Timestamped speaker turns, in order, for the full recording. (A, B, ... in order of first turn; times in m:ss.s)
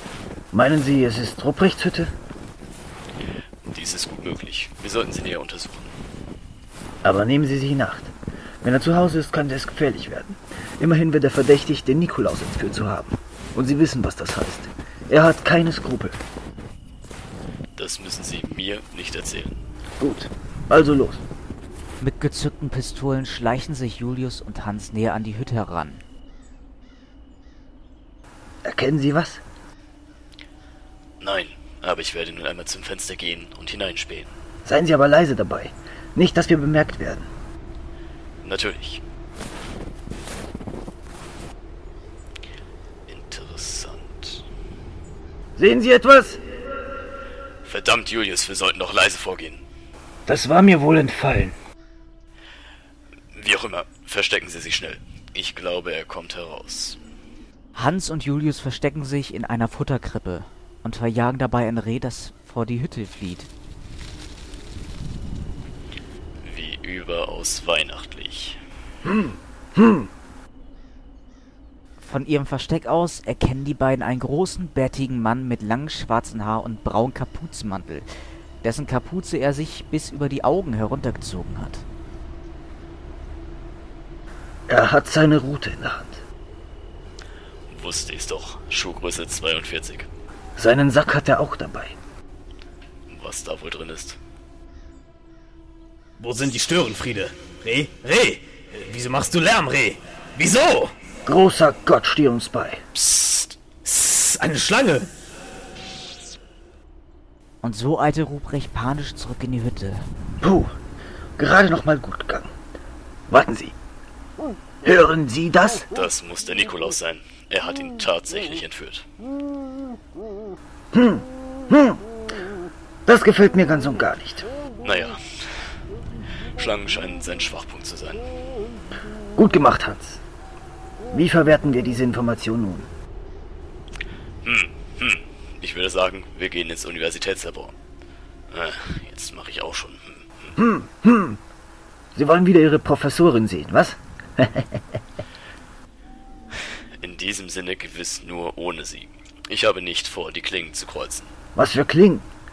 0:00.5-0:02.1 A
0:03.6-0:05.9 B
0:07.0-0:16.2 A
0:17.8-0:19.6 B
0:20.0-0:21.2 A
0:22.0-0:26.0 C
0:28.6-0:29.4 A
0:31.2-0:34.3 B
0:34.6-0:37.3 A
0:38.4-0:39.0 B
0:43.1-0:44.4 B
0:45.6-0:46.4 A
0:47.6-0:49.6 B
0:50.2-0:51.6 A
0:53.3-0:57.0 B
0:57.7-1:03.5 C
1:06.4-1:08.6 B
1:09.1-1:10.1 A
1:12.0-1:18.1 C
1:18.6-1:21.8 C
1:24.7-1:26.2 A
1:27.7-1:30.1 B
1:30.6-1:32.0 A
1:33.1-1:34.2 B
1:36.2-1:40.9 D
1:41.2-1:42.8 A
1:43.8-1:45.1 D
1:47.6-1:50.0 C
1:50.4-1:50.7 A
1:51.4-1:52.5 A
1:53.3-1:53.7 A
1:54.8-1:55.9 A
1:55.9-1:59.0 B
2:00.9-2:02.0 A
2:03.0-2:04.5 A
2:04.8-2:05.2 B
2:06.5-2:08.3 B
2:09.4-2:10.2 A
2:11.1-2:12.9 A
2:14.4-2:17.7 B
2:18.5-2:20.5 B
2:20.6-2:21.4 A
2:22.1-2:24.8 A
2:27.0-2:31.3 B
2:31.6-2:32.2 A